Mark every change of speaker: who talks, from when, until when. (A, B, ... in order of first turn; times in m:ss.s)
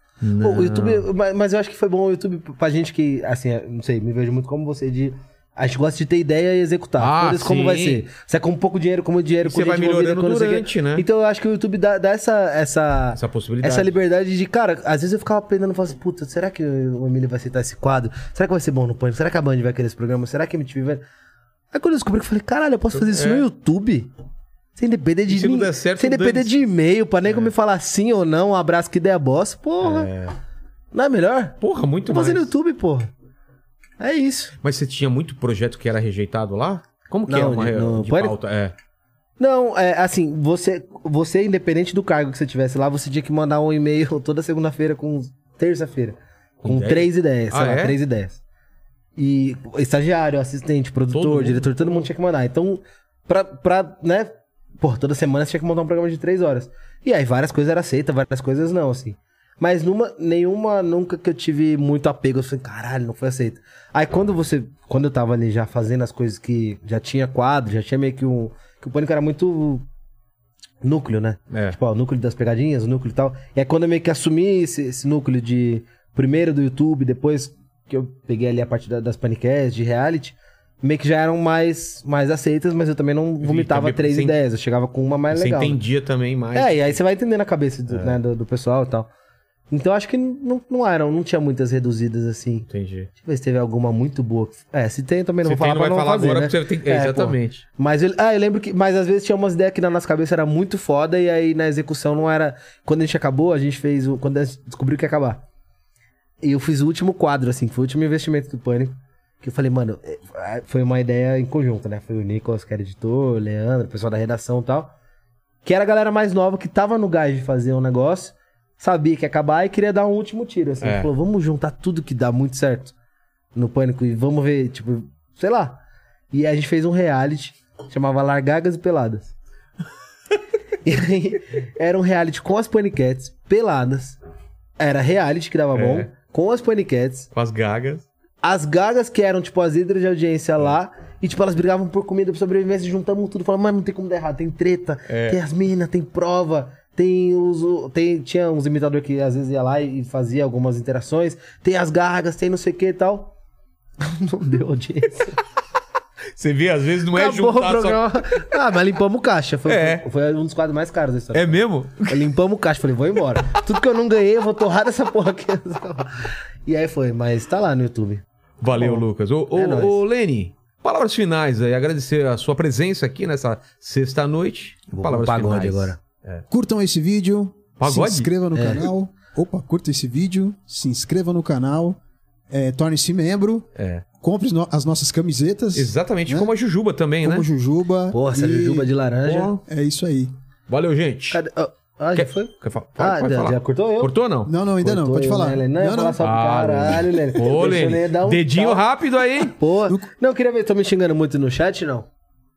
0:00.2-0:01.1 A
0:00.4-0:21.0 B
0:07.0-0:08.0 A
0:09.4-0:11.0 A
0:13.2-0:14.0 A
0:21.7-0:24.1 B
0:22.9-0:23.4 A
0:24.8-0:30.1 B
0:25.3-0:26.6 A
0:27.2-0:27.5 A
0:29.8-0:30.4 A
0:30.9-0:33.1 B
0:31.6-0:32.5 A
0:34.0-0:34.6 B
0:34.6-0:38.7 A
0:37.3-0:38.4 B
0:39.4-0:48.4 B
0:46.6-0:48.0 A
0:49.2-1:09.8 B
0:51.1-0:52.1 A
1:10.8-1:25.8 B
1:11.5-1:11.8 A
1:23.4-1:24.4 A
1:25.3-1:27.0 A
1:26.5-1:29.1 B
1:27.9-1:28.2 A
1:29.7-1:32.7 B
1:32.7-1:33.1 A
1:33.2-1:45.4 B
1:35.4-1:37.6 A
1:46.4-1:54.9 B
1:55.6-2:02.9 B
2:00.8-2:01.1 A
2:03.5-2:05.8 B
2:06.3-2:09.3 B
2:10.8-2:14.2 B
2:14.8-2:17.3 B
2:15.8-2:16.1 A
2:17.3-2:18.1 A
2:18.4-2:33.3 B
2:25.1-2:25.4 A
2:34.0-2:35.4 B
2:36.4-2:38.5 A
2:37.1-2:50.0 B
2:39.7-2:40.0 A
2:41.3-2:42.3 A
2:48.6-2:56.4 A
2:54.9-2:56.0 B
2:56.5-3:02.0 C
2:57.8-2:58.3 A
2:58.6-2:58.9 B
3:02.5-3:03.7 C
3:03.8-3:04.0 A
3:04.2-3:06.5 C
3:05.8-3:07.5 A
3:07.2-3:08.9 C
3:08.1-3:09.5 B
3:09.2-3:09.6 A
3:09.7-3:10.3 C
3:10.7-3:11.4 A
3:11.3-3:14.1 B
3:12.2-3:14.5 A
3:14.5-3:16.2 C
3:14.8-3:22.1 B
3:16.2-3:19.6 A